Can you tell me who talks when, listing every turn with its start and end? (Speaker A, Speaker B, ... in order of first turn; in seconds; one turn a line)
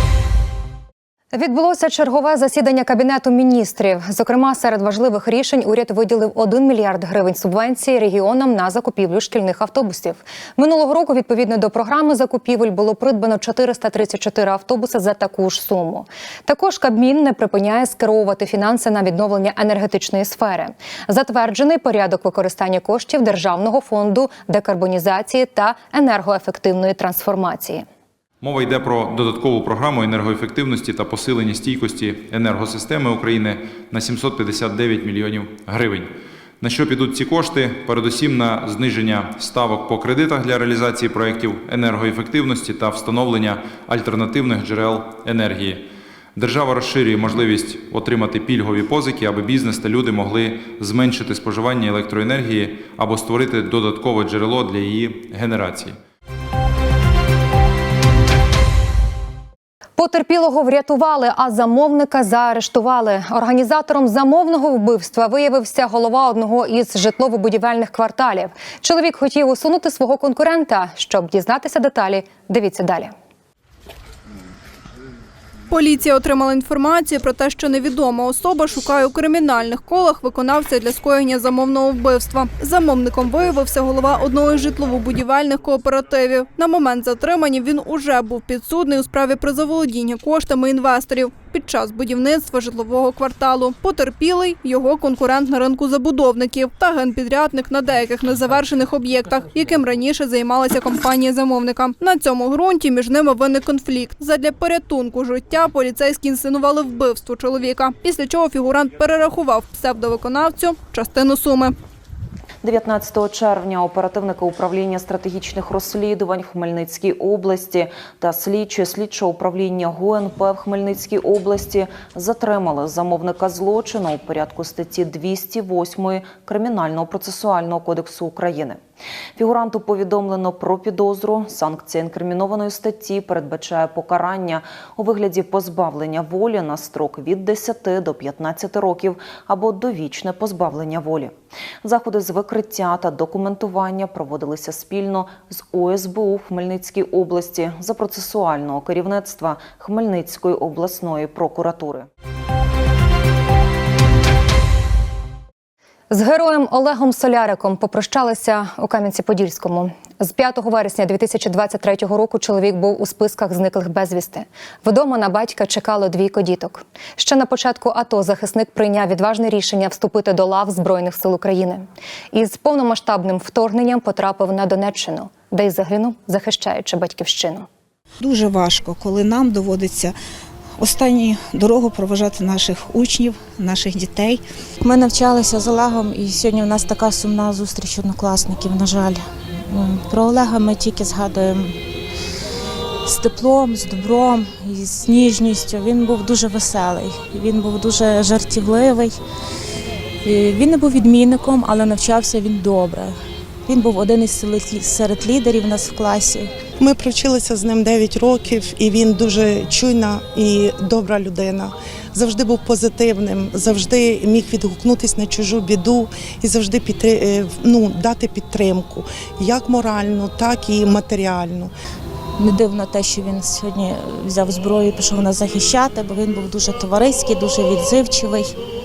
Speaker A: 1.3-27.9
Speaker B: 28.4-45.8
Speaker B: 46.4-56.0
Speaker A: 60.0-73.1
Speaker C: 75.7-111.7
Speaker D: 112.6-128.8
Speaker D: 129.3-152.1
Speaker A: 156.1-177.7
Speaker E: 178.2-180.2
Speaker E: 180.8-184.4
Speaker F: 184.8-191.8
Speaker F: 193.0-199.2
Speaker F: 200.2-206.5
Speaker G: 206.8-221.7
Speaker F: 222.4-228.5